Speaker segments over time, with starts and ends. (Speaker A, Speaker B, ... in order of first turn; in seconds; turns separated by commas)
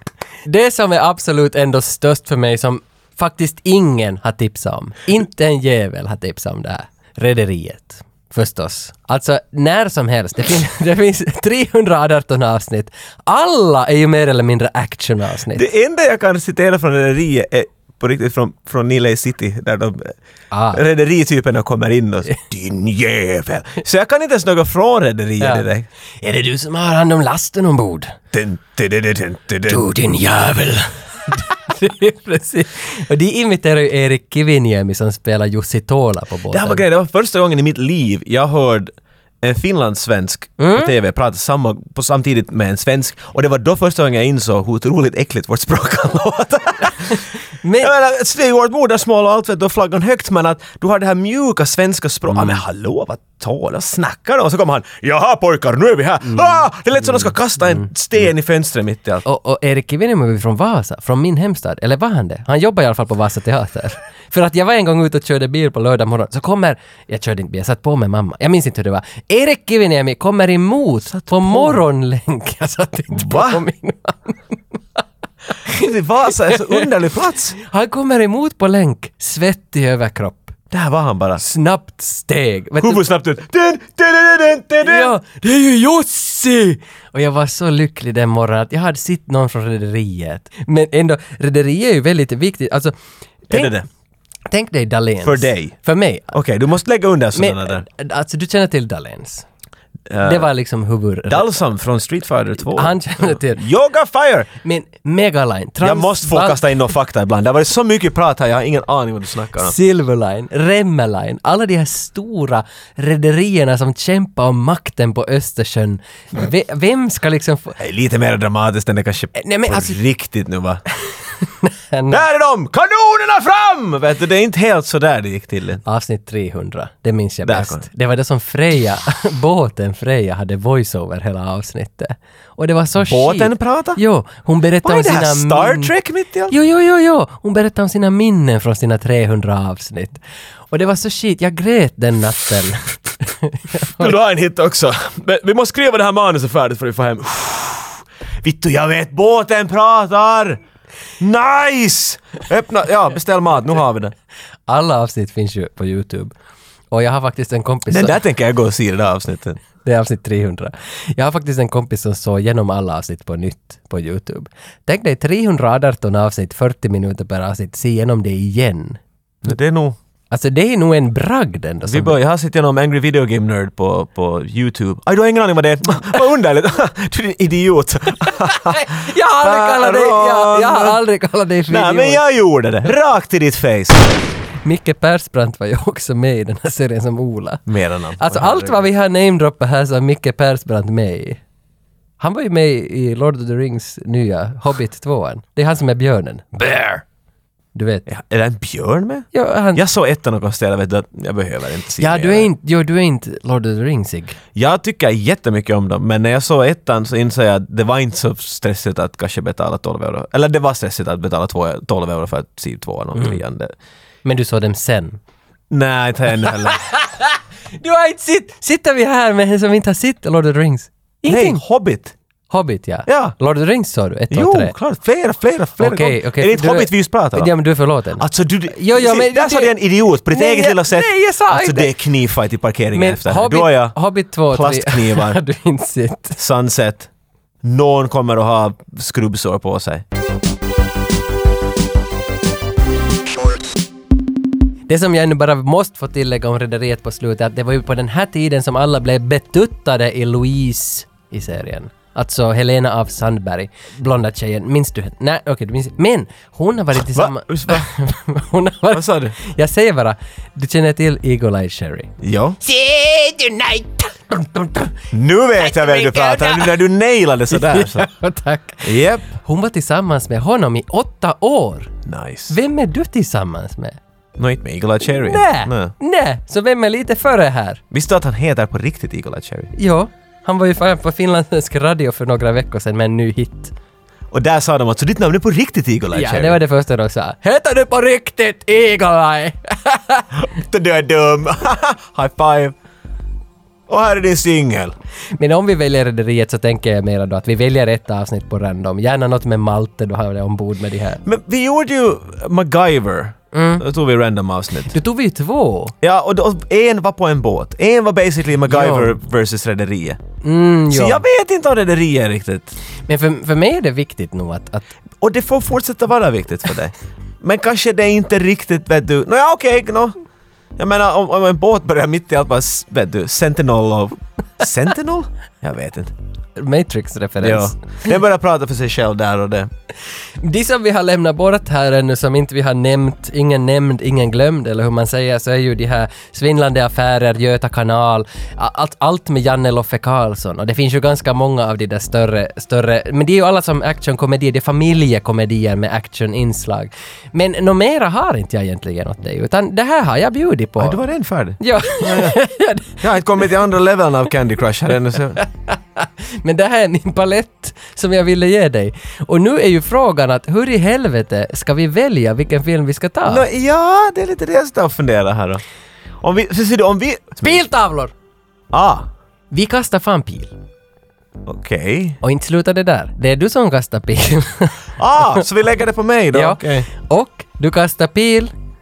Speaker A: 0.5-15.7, Speaker B: 15.5-20.1, Speaker A: 20.5-20.8, Speaker B: 20.7-25.9, Speaker A: 25.4-25.6, Speaker A: 26.2-28.1, Speaker B: 28.3-29.9, Speaker A: 29.7-36.8, Speaker B: 36.5-47.2, Speaker A: 40.6-40.9, Speaker A: 47.0-47.9, Speaker B: 47.8-59.2, Speaker A: 52.3-52.6, Speaker A: 59.2-75.0, Speaker B: 71.1-71.8, Speaker B: 73.1-73.6, Speaker B: 75.7-77.6, Speaker A: 76.5-76.9, Speaker A: 77.6-80.5, Speaker B: 80.7-81.4, Speaker A: 81.4-83.1, Speaker B: 82.8-85.1, Speaker A: 84.8-92.9, Speaker B: 93.5-93.8, Speaker A: 93.5-93.8, Speaker A: 94.5-96.3, Speaker B: 95.2-95.8, Speaker B: 96.3-97.8, Speaker A: 97.3-99.5, Speaker B: 100.1-100.5, Speaker A: 100.2-101.5, Speaker B: 101.3-104.5, Speaker A: 102.7-103.6, Speaker A: 104.6-106.6, Speaker B: 105.8-109.8, Speaker A: 109.6-117.8, Speaker B: 117.8-120.8, Speaker A: 119.3-120.0, Speaker A: 121.4-122.2, Speaker B: 122.1-125.8, Speaker A: 125.8-135.9, Speaker B: 127.4-127.8, Speaker B: 133.0-134.0, Speaker B: 134.8-136.5, Speaker A: 136.5-144.1, Speaker B: 143.8-150.6, Speaker B: 151.2-154.1, Speaker A: 154.7-156.3, Speaker A: 156.9-158.2, Speaker B: 157.9-159.6, Speaker A: 159.8-169.0, Speaker B: 169.4-170.0, Speaker A: 170.3-172.2, Speaker B: 171.9-181.0, Speaker A: 178.3-182.2, Speaker B: 181.7-184.1, Speaker A: 184.6-187.7, Speaker B: 187.7-188.9, Speaker A: 188.2-191.4, Speaker A: 192.2-197.0, Speaker A: 197.7-198.0, Speaker B: 198.1-202.5, Speaker A: 199.3-199.8, Speaker A: 202.0-204.4, Speaker B: 204.5-213.7, Speaker A: 214.2-215.2, Speaker B: 215.7-216.8, Speaker A: 216.4-221.6, Speaker B: 221.3-222.1, Speaker A: 222.5-224.7, Speaker B: 223.1-223.3, Speaker B: 224.3-227.5, Speaker A: 225.8-229.7, Speaker B: 228.2-234.0, Speaker A: 230.3-231.9, Speaker A: 232.9-236.4, Speaker B: 234.5-235.4, Speaker B: 236.4-237.1, Speaker B: 237.6-240.0, Speaker A: 244.9-264.9, Speaker B: 256.9-257.9, Speaker B: 258.9-259.3, Speaker B: 262.2-262.6, Speaker B: 265.1-268.1, Speaker A: 265.6-266.8, Speaker A: 267.5-271.9, Speaker B: 268.8-269.2, Speaker B: 272.1-272.6, Speaker A: 272.5-274.0, Speaker B: 274.4-275.9, Speaker A: 275.1-277.8, Speaker B: 277.9-279.7, Speaker A: 279.7-283.7, Speaker B: 284.3-286.6, Speaker A: 286.1-290.3, Speaker B: 290.3-292.8, Speaker B: 293.9-294.9, Speaker A: 295.3-301.2, Speaker B: 301.2-304.9, Speaker A: 303.5-303.8, Speaker A: 304.9-305.9, Speaker B: 306.0-310.2, Speaker A: 308.7-309.2, Speaker A: 310.4-311.2, Speaker B: 310.9-312.8, Speaker A: 313.1-314.9, Speaker B: 315.2-320.1, Speaker B: 320.8-326.1, Speaker A: 326.6-328.0, Speaker B: 327.4-329.7, Speaker A: 330.4-351.0, Speaker B: 350.8-352.4, Speaker A: 351.6-353.0, Speaker B: 353.0-355.4, Speaker A: 355.4-363.4, Speaker B: 363.3-365.6, Speaker B: 366.2-367.6, Speaker A: 367.4-368.1, Speaker B: 368.7-369.1, Speaker A: 369.5-370.5, Speaker B: 371.4-372.2, Speaker A: 372.2-375.4, Speaker B: 375.0-376.9, Speaker A: 376.3-378.5